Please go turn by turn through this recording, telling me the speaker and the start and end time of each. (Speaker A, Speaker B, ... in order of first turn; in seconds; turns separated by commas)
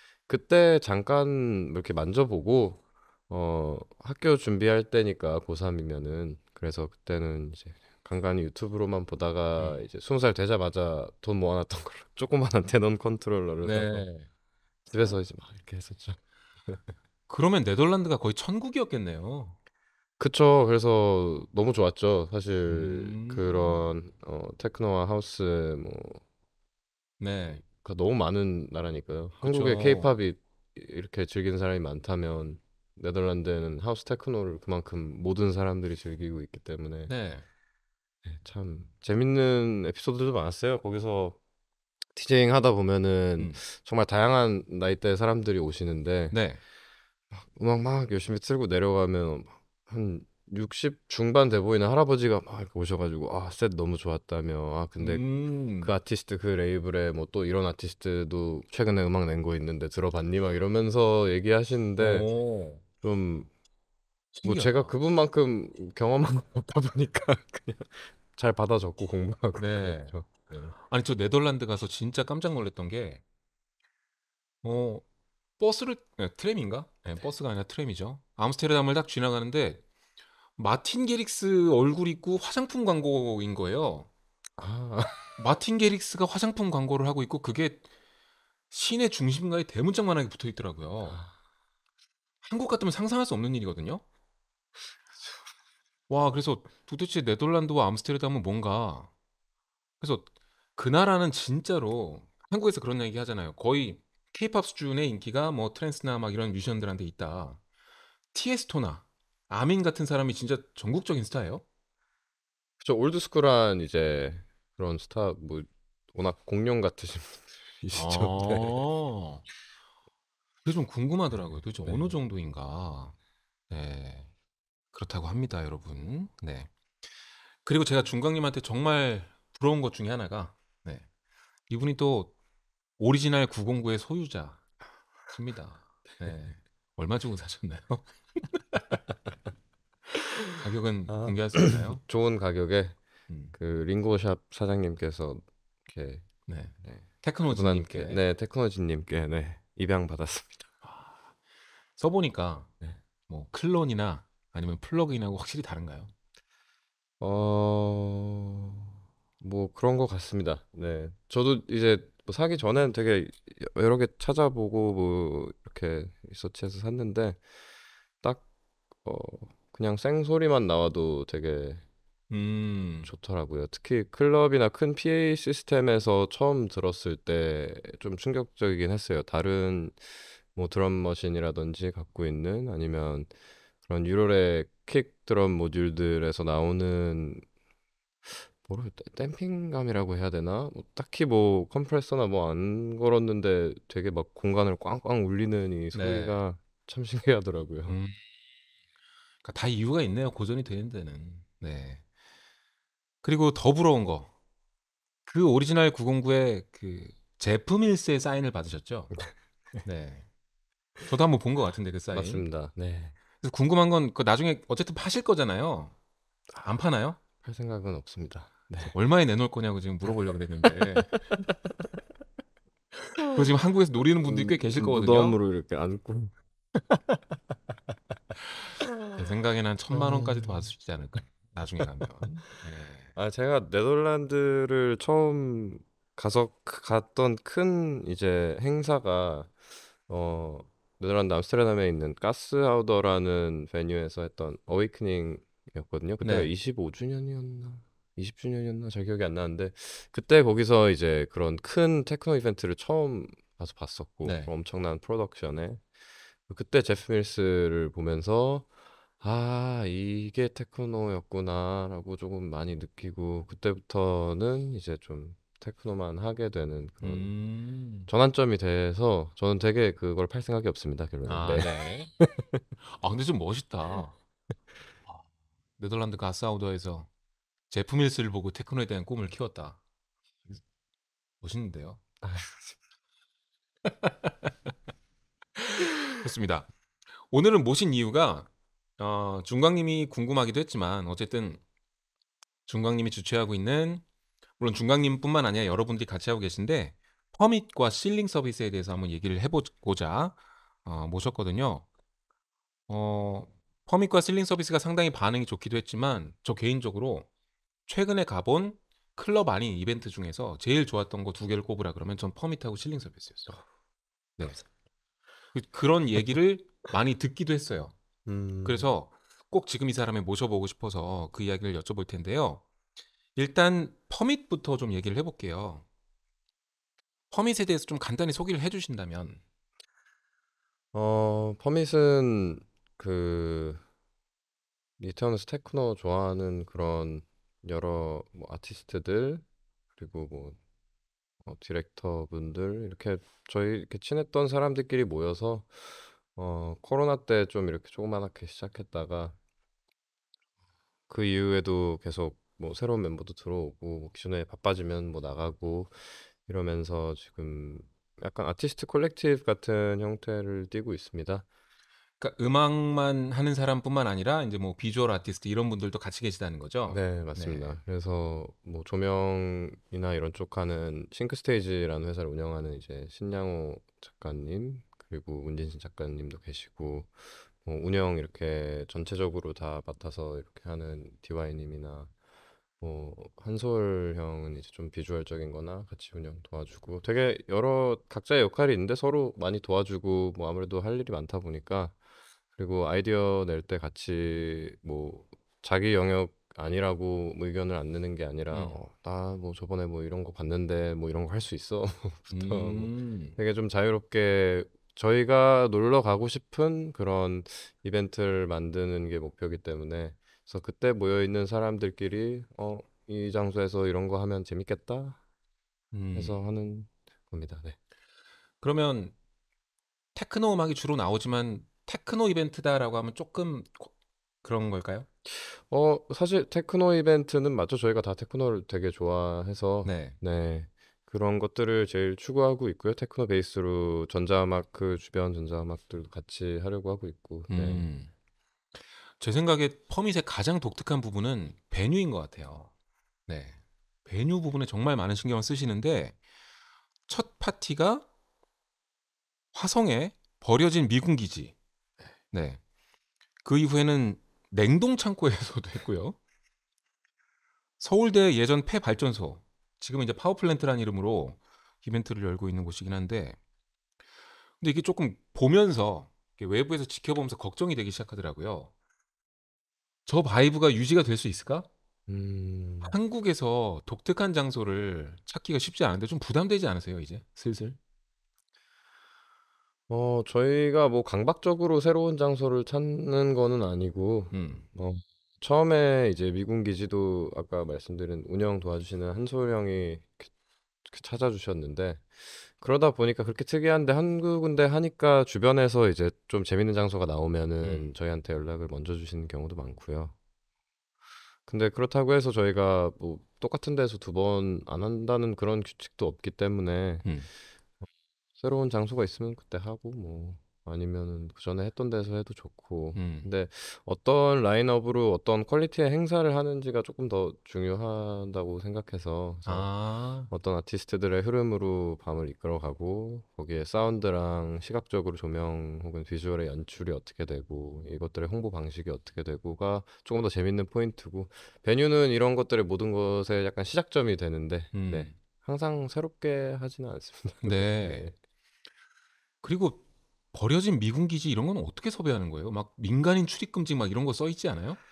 Speaker A: 0.3-14.0, Speaker B: 13.6-14.3, Speaker A: 14.9-16.8, Speaker B: 17.3-19.6, Speaker A: 20.2-26.2, Speaker B: 22.7-23.8, Speaker B: 27.2-27.6, Speaker A: 27.8-37.1, Speaker B: 29.4-30.1, Speaker B: 37.1-37.5, Speaker A: 38.2-41.4, Speaker A: 42.1-46.3, Speaker B: 46.3-46.6, Speaker A: 47.3-62.3, Speaker B: 55.0-55.9, Speaker B: 62.0-62.8, Speaker A: 63.0-63.5, Speaker B: 64.3-64.9, Speaker A: 64.4-70.7, Speaker B: 69.5-70.1, Speaker B: 70.8-73.2, Speaker B: 74.6-75.0, Speaker B: 75.6-79.8, Speaker B: 80.6-84.1, Speaker A: 84.6-85.3, Speaker B: 85.4-87.8, Speaker B: 88.7-91.2, Speaker B: 92.4-94.0, Speaker A: 95.1-95.4, Speaker B: 96.1-99.1, Speaker B: 100.0-107.6, Speaker B: 108.3-111.6, Speaker A: 112.8-118.8, Speaker B: 117.9-119.5, Speaker B: 120.6-123.1, Speaker A: 121.8-122.1, Speaker B: 123.7-124.3, Speaker B: 124.9-126.7, Speaker B: 127.6-131.1, Speaker B: 131.7-132.3, Speaker B: 133.0-134.6, Speaker B: 135.3-139.0, Speaker B: 140.6-142.0, Speaker A: 141.1-143.0, Speaker B: 143.3-143.5, Speaker A: 143.5-146.3, Speaker B: 146.5-148.2, Speaker A: 146.8-150.7, Speaker B: 150.8-151.1, Speaker B: 152.0-152.7, Speaker B: 153.3-156.1, Speaker A: 157.2-167.4, Speaker A: 169.0-171.8, Speaker B: 172.3-173.1, Speaker A: 173.0-183.3, Speaker A: 183.8-187.4, Speaker A: 188.2-198.0, Speaker B: 195.9-196.4, Speaker B: 197.9-198.2, Speaker B: 199.4-202.0, Speaker B: 203.2-204.3, Speaker B: 205.3-209.1, Speaker B: 209.8-210.2, Speaker B: 211.1-212.4, Speaker A: 212.1-213.2, Speaker B: 213.4-215.9, Speaker B: 216.6-217.2, Speaker A: 217.4-218.9, Speaker B: 218.8-221.3, Speaker B: 223.1-225.4, Speaker A: 224.2-226.3, Speaker B: 228.5-233.1, Speaker A: 229.9-230.7, Speaker A: 233.1-239.5, Speaker A: 240.1-255.8, Speaker B: 246.2-246.5, Speaker B: 254.2-254.5, Speaker A: 256.5-258.7, Speaker A: 259.2-267.3, Speaker B: 267.0-268.1, Speaker A: 268.1-272.6, Speaker B: 271.2-272.1, Speaker B: 272.8-274.1, Speaker B: 275.8-277.1, Speaker B: 277.7-279.8, Speaker B: 281.4-282.0, Speaker A: 282.2-282.7, Speaker B: 285.6-286.7, Speaker B: 287.3-291.6, Speaker B: 292.7-294.0, Speaker B: 294.6-301.9, Speaker B: 302.9-307.3, Speaker B: 307.9-313.6, Speaker B: 315.5-317.9, Speaker A: 318.2-318.9, Speaker B: 318.6-322.6, Speaker B: 323.3-325.8, Speaker B: 327.3-329.4, Speaker A: 330.9-333.8, Speaker A: 335.0-339.4, Speaker A: 339.9-340.6, Speaker A: 341.4-349.4, Speaker A: 351.1-361.4, Speaker B: 362.2-367.8, Speaker A: 366.9-382.1, Speaker A: 382.8-391.9, Speaker A: 392.6-415.2, Speaker B: 398.5-398.8, Speaker B: 402.3-403.4, Speaker B: 415.9-416.4, Speaker A: 416.1-417.8, Speaker B: 418.6-419.1, Speaker B: 420.1-423.9, Speaker B: 424.4-425.1, Speaker A: 425.2-437.8, Speaker B: 429.8-430.2, Speaker B: 437.5-438.1, Speaker B: 439.2-442.7, Speaker B: 443.3-446.2, Speaker B: 447.1-448.1, Speaker B: 449.5-451.5, Speaker B: 452.3-452.6, Speaker B: 453.4-456.2, Speaker B: 457.8-463.4, Speaker B: 464.6-468.7, Speaker B: 470.1-471.7, Speaker A: 472.1-472.9, Speaker B: 472.8-477.8, Speaker A: 479.9-490.3, Speaker B: 484.3-484.6, Speaker A: 490.8-500.1, Speaker B: 497.6-497.9, Speaker A: 501.5-507.1, Speaker A: 508.4-519.7, Speaker B: 512.9-513.3, Speaker B: 519.5-520.3, Speaker A: 520.3-538.1, Speaker B: 534.7-535.1, Speaker B: 537.4-538.0, Speaker B: 539.4-544.8